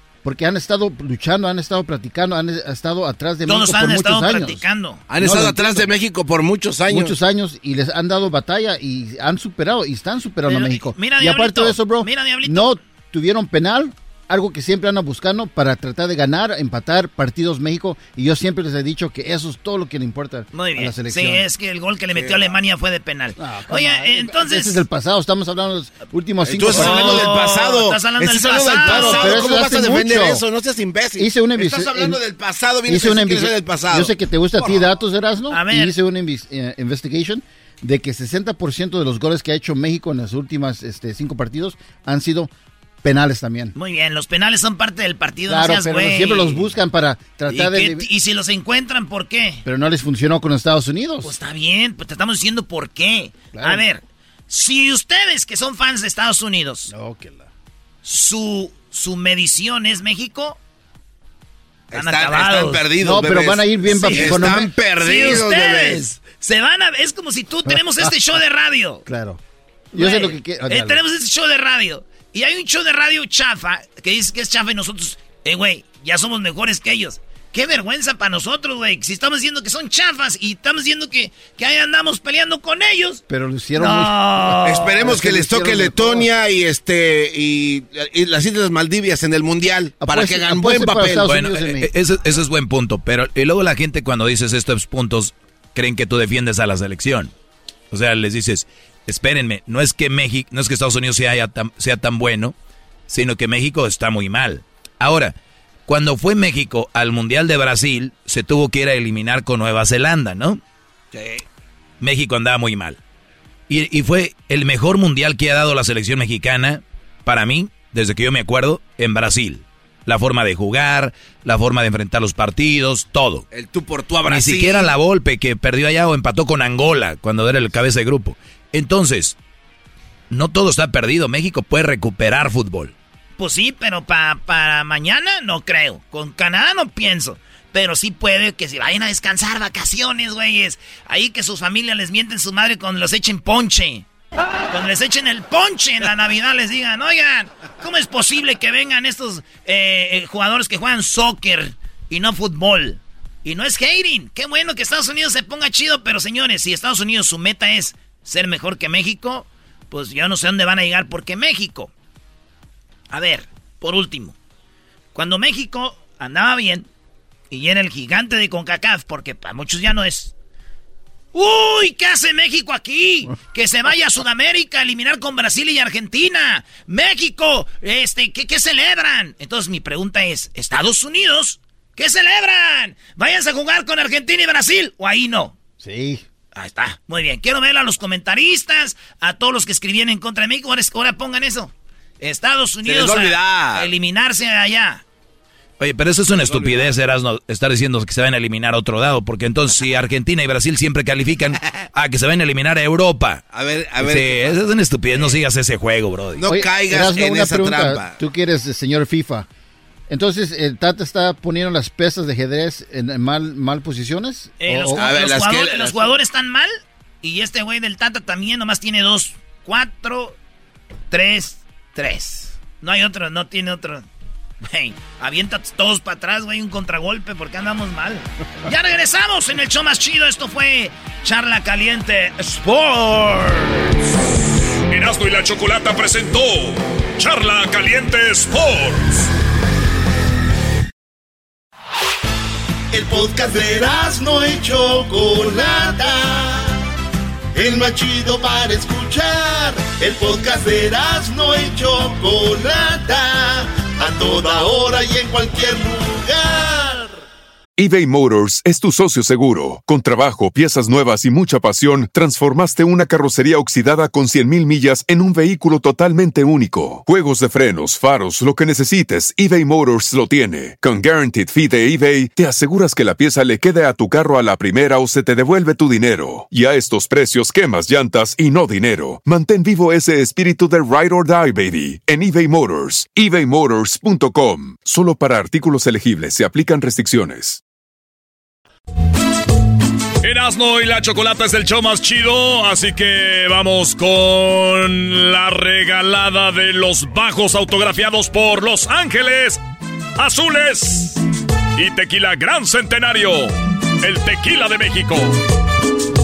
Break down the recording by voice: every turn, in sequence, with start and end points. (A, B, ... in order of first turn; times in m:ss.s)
0:00.2-0:05.9 A
0:03.6-0:05.0 B
0:05.1-0:07.2 C
0:06.9-0:21.5 A
0:10.5-0:12.6 B
0:20.6-0:23.3 B
0:22.1-0:22.6 C
0:23.4-0:27.4 A
0:23.9-0:24.4 B
0:26.5-0:35.0 C
0:26.9-0:29.2 B
0:28.5-0:30.4 A
0:31.2-0:32.2 A
0:32.9-0:42.5 A
0:43.0-0:43.7 A
0:43.8-0:46.5 B
0:45.5-0:48.1 A
0:47.8-0:49.6 B
0:49.6-0:51.4 A
0:51.3-0:53.8 B
0:53.5-0:53.9 A
0:54.5-0:56.9 B
0:56.9-0:57.5 A
0:58.1-1:00.6 B
1:01.9-1:06.1 C
1:02.0-1:02.8 B
1:02.9-1:04.7 A
1:05.0-1:09.0 B
1:07.6-1:08.3 A
1:09.1-1:09.4 A
1:09.9-1:11.0 A
1:10.0-1:23.2 B
1:23.3-1:26.3 A
1:23.8-1:24.7 B
1:24.6-1:31.3 C
1:30.0-1:31.9 A
1:31.2-1:37.3 D
1:37.9-1:42.6 D
1:43.1-1:45.4 D
1:45.9-1:50.6 D
1:51.1-1:51.4 C
1:52.0-1:53.0 D
1:53.7-2:03.4 D
2:03.5-2:04.9 C
2:04.3-2:09.4 D
2:10.3-2:13.0 D
2:13.4-2:24.0 B
2:24.7-2:41.9 B
2:43.1-2:44.3 B
2:45.2-2:46.9 B
2:47.5-2:50.3 B
2:51.3-3:05.5 B
3:05.8-3:06.2 A
3:06.6-3:15.0 B
3:12.8-3:13.9 C
3:15.8-3:23.4 D
3:16.3-3:17.0 C
3:23.5-3:24.6 C
3:24.0-3:26.4 D
3:26.4-3:28.2 C
3:26.5-3:29.5 A
3:30.1-3:35.3 A
3:34.6-3:36.7 B
3:35.0-3:36.0 C
3:37.2-3:40.3 B
3:41.1-3:44.0 B
3:44.7-3:53.4 B
3:54.9-3:59.2 E
4:02.9-4:06.8 F
4:07.6-4:17.1 F
4:17.8-4:47.6 G
4:50.2-4:59.6 E
5:00.2-5:01.2 E
5:01.8-5:05.4 E